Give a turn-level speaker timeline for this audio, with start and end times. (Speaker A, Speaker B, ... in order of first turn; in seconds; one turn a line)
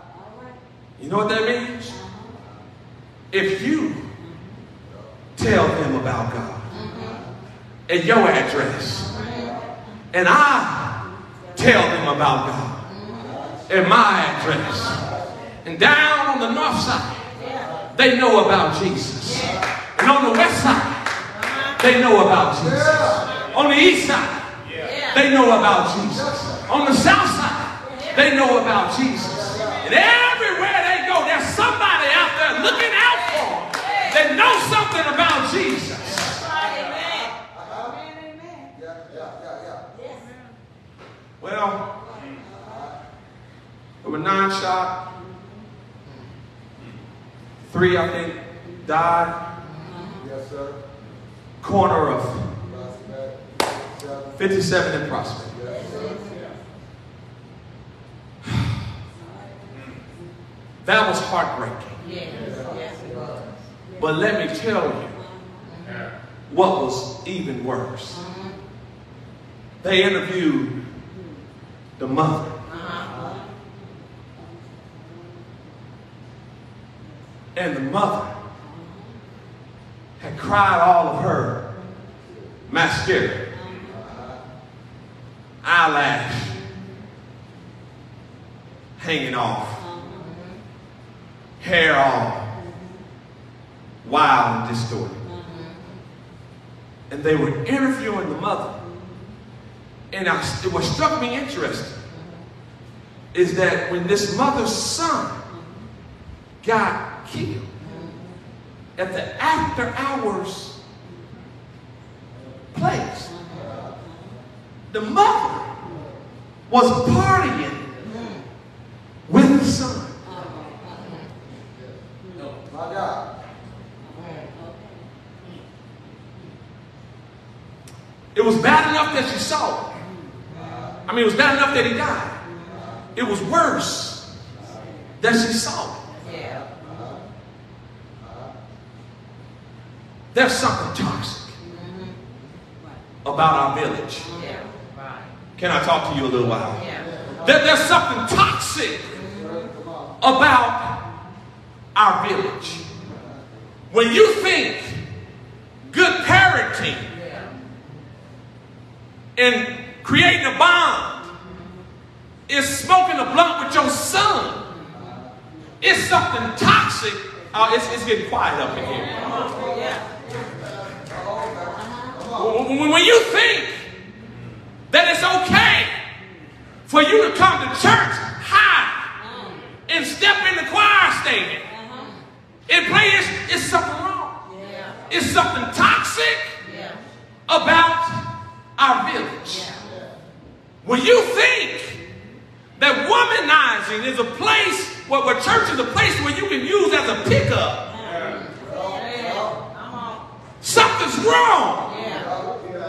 Speaker A: 1.0-2.0
Speaker A: 3.3-4.1
Speaker A: 5.4-6.7
Speaker B: 6.7-7.2
Speaker A: 7.9-9.1
Speaker B: 9.2-9.6
Speaker A: 10.1-11.0
Speaker A: 11.6-12.8
Speaker B: 13.0-13.4
Speaker A: 13.7-15.0
Speaker A: 15.6-17.2
Speaker B: 17.4-17.7
Speaker A: 17.9-21.0
Speaker A: 21.8-24.4
Speaker B: 24.8-25.2
Speaker A: 25.1-36.4
Speaker B: 36.3-38.8
Speaker A: 41.4-41.9
Speaker A: 44.0-45.0
Speaker A: 47.6-49.5
Speaker A: 51.6-52.6
Speaker A: 54.4-55.5
Speaker B: 55.7-56.5
Speaker A: 60.8-62.0
Speaker B: 62.0-63.5
Speaker A: 64.0-65.2
Speaker B: 65.7-66.0
Speaker A: 66.5-68.2
Speaker A: 69.8-70.8
Speaker A: 72.0-72.6
Speaker B: 72.7-73.3
Speaker A: 77.5-78.3
Speaker A: 80.2-81.7
Speaker A: 82.7-83.5
Speaker A: 85.6-86.6
Speaker A: 89.0-89.8
Speaker B: 90.1-90.4
Speaker A: 91.6-92.5
Speaker A: 94.0-95.2
Speaker B: 95.5-95.8
Speaker A: 97.1-98.8
Speaker A: 100.1-102.0
Speaker A: 103.3-105.4
Speaker A: 106.6-107.7
Speaker A: 109.0-110.8
Speaker A: 112.7-113.3
Speaker A: 114.9-115.7
Speaker A: 116.7-117.9
Speaker A: 119.3-120.2
Speaker A: 128.3-129.9
Speaker A: 131.1-132.4
Speaker A: 133.1-134.3
Speaker A: 135.2-136.0
Speaker B: 136.2-136.7
Speaker A: 140.3-141.6
Speaker B: 141.8-142.1
Speaker A: 143.2-144.3
Speaker B: 144.3-145.3
Speaker A: 145.6-146.8
Speaker B: 146.8-147.1
Speaker A: 147.4-149.1
Speaker A: 150.2-151.1
Speaker A: 151.9-152.8
Speaker A: 153.9-155.0
Speaker A: 155.9-157.1
Speaker B: 157.2-157.5
Speaker A: 159.4-161.2
Speaker A: 162.5-164.6
Speaker A: 165.8-169.2
Speaker B: 169.1-170.1
Speaker A: 172.3-173.9
Speaker A: 174.9-175.9
Speaker A: 176.9-179.1
Speaker A: 179.9-181.7
Speaker B: 181.8-182.1
Speaker A: 182.7-184.4
Speaker B: 184.5-185.0
Speaker A: 185.1-186.6
Speaker B: 186.6-187.0
Speaker A: 187.5-188.2
Speaker A: 188.8-189.7
Speaker A: 190.8-192.0
Speaker A: 192.8-197.9
Speaker B: 198.2-200.2
Speaker A: 200.6-201.9
Speaker B: 201.9-202.4